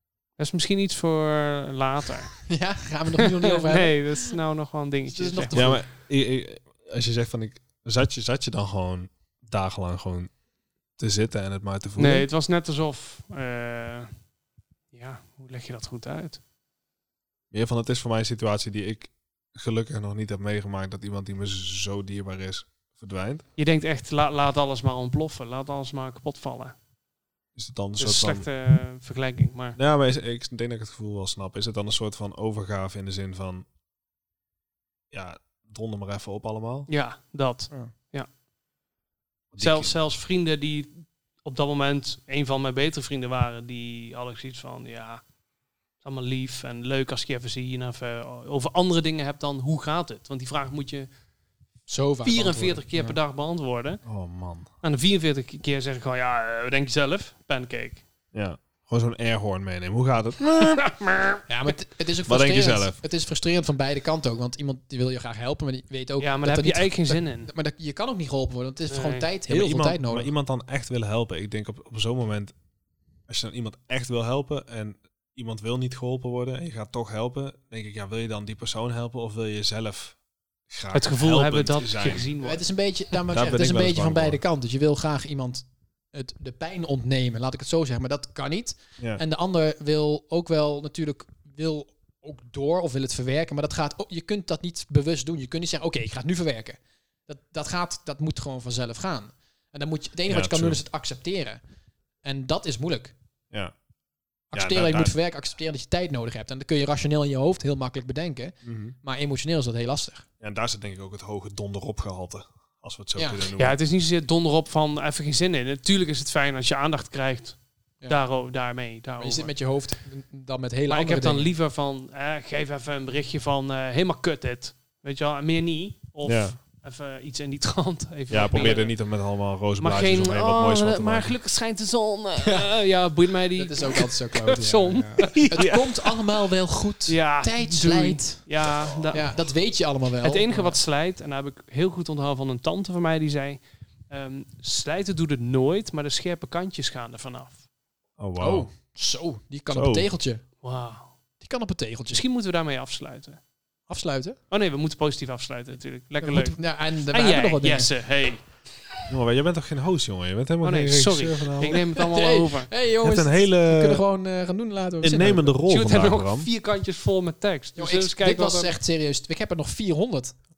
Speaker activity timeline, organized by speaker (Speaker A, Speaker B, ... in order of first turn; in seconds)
Speaker A: 0.4-2.3, 3.2-5.7, 12.0-14.1, 14.9-16.4, 23.6-26.8, 28.0-29.8, 36.9-38.3, 39.6-45.2, 46.0-51.1, 52.2-54.0, 54.8-58.0, 60.6-61.4, 66.2-67.5, 68.9-69.3, 80.9-82.6, 113.6-119.5, 120.9-128.9, 129.8-135.7, 137.1-139.3, 140.2-147.6, 150.6-151.1, 152.1-153.4, 154.5-158.4, 160.6-162.7, 165.7-168.7
Speaker B: 2.5-4.3, 5.1-5.8, 51.9-53.2, 61.5-70.3, 82.4-101.6, 102.2-103.1, 104.5-110.3, 113.2-113.4, 119.2-121.5, 132.4-132.7, 133.6-138.4, 139.1-140.8, 148.4-150.4, 151.4-152.2, 153.9-154.4, 156.2-157.9, 161.7-165.6, 167.8-170.3
Speaker C: 5.5-10.3, 11.0-12.3, 17.5-23.4, 27.6-28.5, 29.8-33.7, 35.1-36.9, 39.5-40.0, 54.0-54.7, 58.3-60.9, 62.3-63.0, 69.5-72.5, 73.3-80.2, 80.7-82.3, 83.3-84.4, 100.3-100.8, 104.5-105.1, 108.7-109.0, 110.4-113.8, 126.2-126.5, 128.3-131.3, 135.3-136.0, 138.8-139.1, 148.2-148.7, 149.7-150.1, 159.1-161.8, 163.0-164.0, 165.0-166.5